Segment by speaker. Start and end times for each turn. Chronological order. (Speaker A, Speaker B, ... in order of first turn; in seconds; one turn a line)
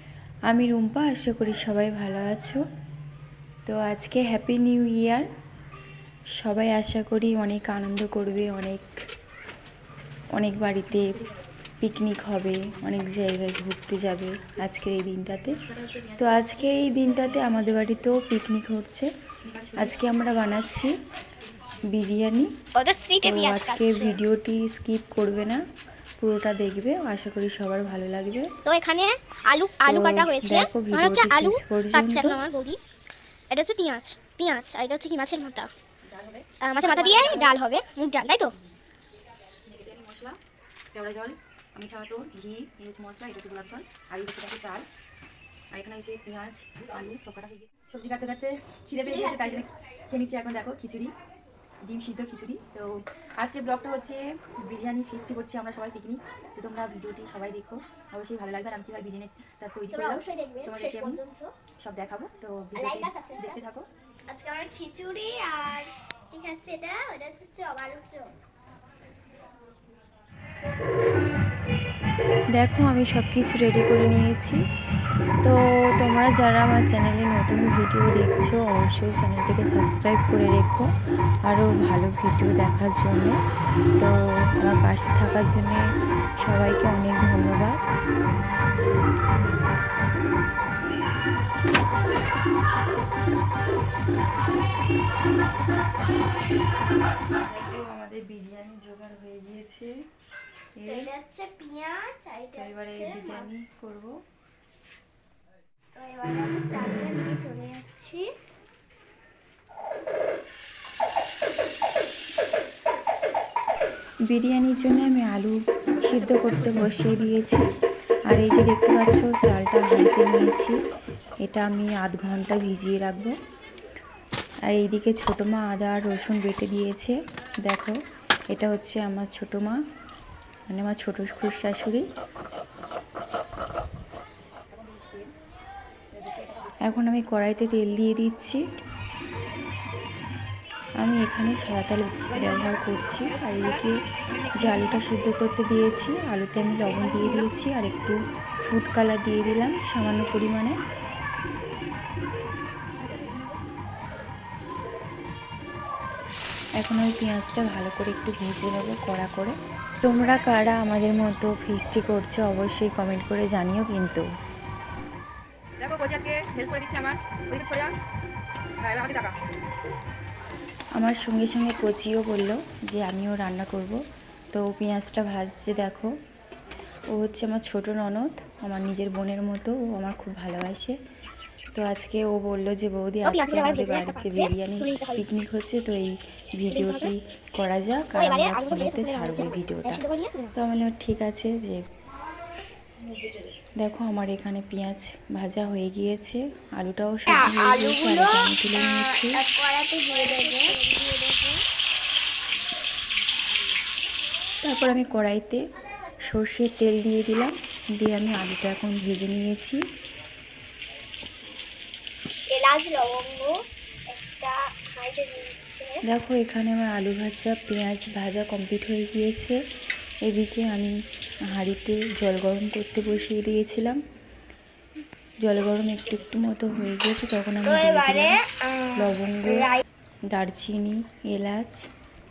Speaker A: 0.5-2.6
Speaker A: 3.7-5.3
Speaker A: 6.4-8.9
Speaker A: 10.4-11.1
Speaker A: 11.8-15.6
Speaker B: 15.9-16.5
Speaker A: 16.2-19.1
Speaker B: 19.5-20.1
Speaker A: 19.8-21.0
Speaker A: 21.9-22.5
Speaker C: 22.8-24.2
Speaker A: 23.2-25.6
Speaker A: 26.2-28.5
Speaker C: 28.6-32.8
Speaker A: 29.9-32.4
Speaker C: 33.5-35.7
Speaker B: 36.1-37.6
Speaker C: 36.6-38.5
Speaker B: 39.7-40.4
Speaker B: 40.9-44.9
Speaker B: 45.7-51.1
Speaker C: 49.0-49.6
Speaker B: 51.8-61.2
Speaker C: 59.9-61.5
Speaker B: 61.8-63.9
Speaker C: 62.8-63.6
Speaker C: 64.3-68.3
Speaker A: 72.6-74.6
Speaker A: 75.4-80.9
Speaker A: 81.5-83.4
Speaker A: 84.0-85.8
Speaker A: 86.4-87.8
Speaker A: 97.4-99.9
Speaker A: 100.8-101.1
Speaker C: 100.8-103.5
Speaker A: 102.5-104.1
Speaker C: 106.0-108.2
Speaker A: 114.3-117.6
Speaker B: 116.0-117.1
Speaker A: 118.3-120.8
Speaker A: 121.4-123.3
Speaker A: 124.7-128.0
Speaker A: 128.5-129.8
Speaker A: 130.7-132.0
Speaker B: 134.7-135.3
Speaker B: 136.1-136.9
Speaker A: 136.8-138.6
Speaker A: 141.0-144.0
Speaker B: 142.3-145.0
Speaker A: 144.6-150.8
Speaker B: 147.0-147.5
Speaker B: 153.0-153.5
Speaker A: 156.8-164.2
Speaker B: 165.8-167.9
Speaker B: 168.8-169.4
Speaker A: 171.0-174.0
Speaker A: 174.5-176.1
Speaker A: 177.1-181.0
Speaker A: 181.8-190.0
Speaker C: 183.2-185.2
Speaker C: 186.7-187.1
Speaker C: 188.1-190.6
Speaker A: 190.6-191.8
Speaker A: 193.8-199.4
Speaker C: 197.4-198.3
Speaker C: 198.9-201.6
Speaker A: 204.6-205.6
Speaker A: 206.3-209.8
Speaker C: 212.5-213.5
Speaker C: 214.1-216.0
Speaker A: 216.1-219.6
Speaker A: 220.3-220.9
Speaker A: 221.5-224.0
Speaker A: 225.4-228.3
Speaker C: 227.7-228.3
Speaker A: 229.0-229.7
Speaker A: 230.3-231.8